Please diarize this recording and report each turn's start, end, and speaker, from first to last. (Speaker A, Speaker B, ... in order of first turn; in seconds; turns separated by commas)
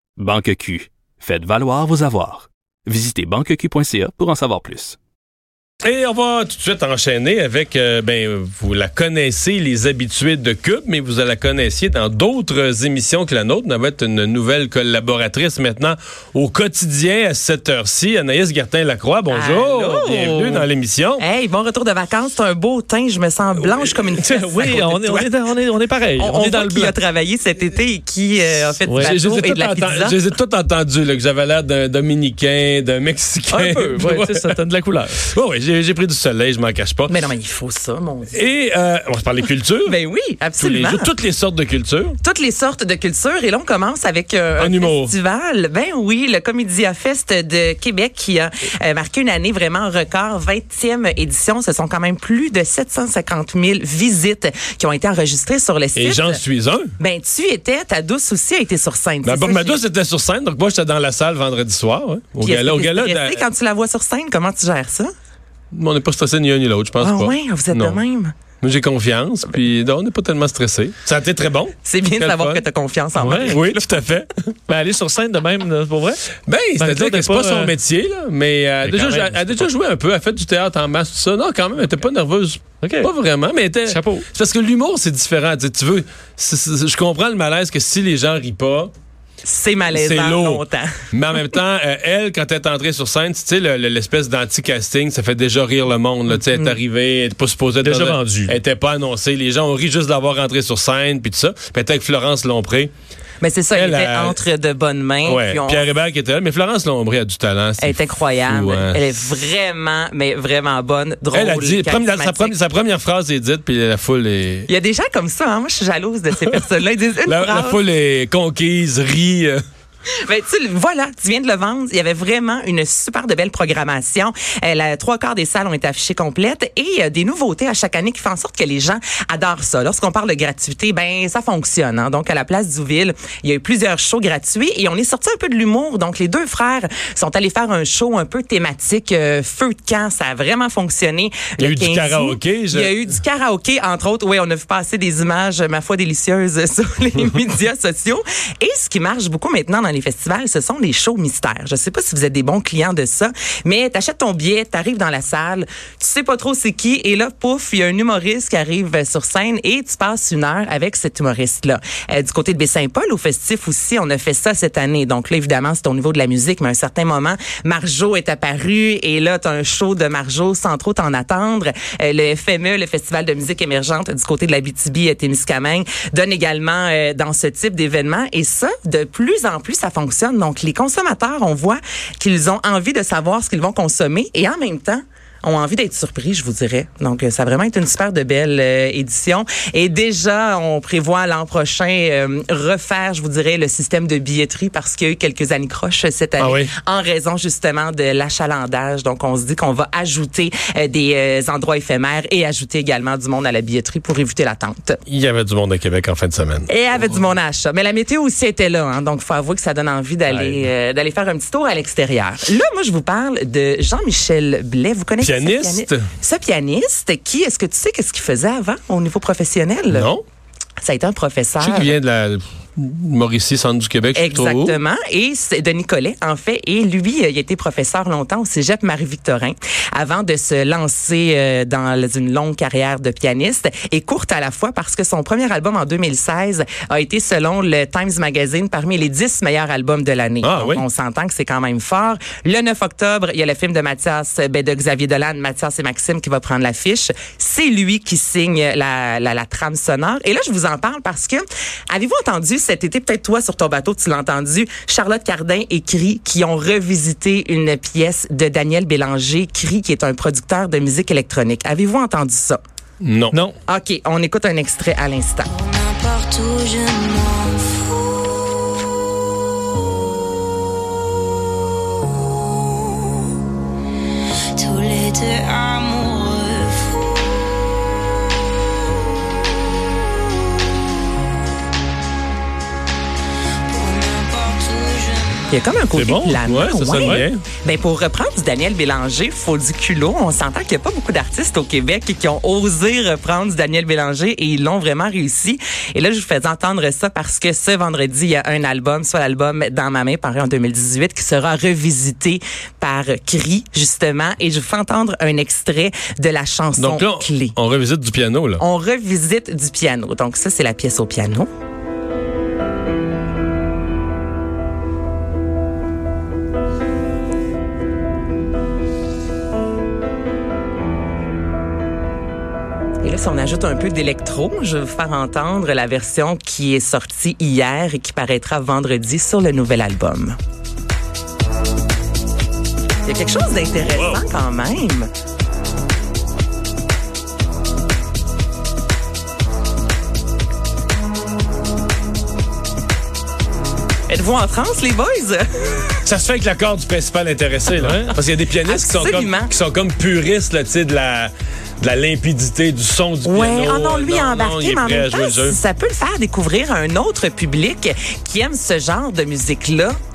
Speaker A: 0.2-5.0, Speaker B: 5.8-21.2, Speaker C: 19.3-20.7, Speaker C: 21.2-25.3, Speaker B: 23.7-24.1, Speaker D: 24.2-26.9, Speaker C: 26.2-30.2, Speaker D: 28.9-29.1, Speaker B: 29.0-34.5, Speaker D: 33.5-35.2, Speaker B: 35.2-37.1, Speaker C: 37.1-38.4, Speaker B: 38.3-40.0, Speaker C: 39.9-41.1, Speaker B: 40.6-42.2, Speaker C: 42.2-56.4, Speaker B: 44.6-45.1, Speaker B: 56.0-56.9, Speaker C: 57.0-59.8, Speaker B: 59.2-63.5, Speaker C: 62.4-65.1, Speaker B: 65.7-68.0, Speaker C: 67.0-68.3, Speaker B: 68.6-72.6, Speaker C: 71.8-74.1, Speaker D: 73.2-73.5, Speaker B: 73.5-74.5, Speaker D: 74.7-76.2, Speaker B: 76.5-88.9, Speaker D: 76.8-77.7, Speaker D: 78.9-79.6, Speaker D: 82.8-83.1, Speaker D: 83.9-84.2, Speaker C: 89.4-90.9, Speaker B: 89.9-102.9, Speaker D: 97.8-98.5, Speaker C: 103.4-105.9, Speaker B: 103.7-104.4, Speaker B: 105.2-109.0, Speaker C: 107.8-112.5, Speaker B: 111.3-114.7, Speaker C: 114.7-117.8, Speaker B: 117.3-119.6, Speaker C: 120.3-205.0, Speaker B: 141.6-142.9, Speaker B: 196.4-196.7, Speaker B: 205.1-206.7, Speaker C: 206.7-220.1, Speaker B: 210.3-210.7, Speaker B: 215.2-216.1, Speaker B: 219.9-220.2, Speaker C: 220.8-221.9, Speaker B: 221.6-224.8, Speaker C: 224.2-262.6, Speaker B: 240.4-240.8, Speaker B: 263.0-263.4, Speaker D: 263.3-263.6, Speaker C: 263.7-265.6, Speaker E: 265.5-268.0, Speaker E: 272.7-273.1, Speaker E: 274.5-277.0, Speaker E: 283.7-285.4, Speaker C: 285.5-307.6, Speaker D: 285.9-286.4, Speaker B: 286.4-287.4, Speaker B: 306.8-308.6, Speaker C: 308.6-311.5, Speaker C: 323.0-330.4, Speaker C: 333.1-335.1, Speaker B: 333.9-334.2, Speaker C: 344.1-346.0, Speaker B: 346.0-355.6, Speaker D: 347.8-348.1, Speaker C: 348.6-349.5, Speaker C: 353.2-359.9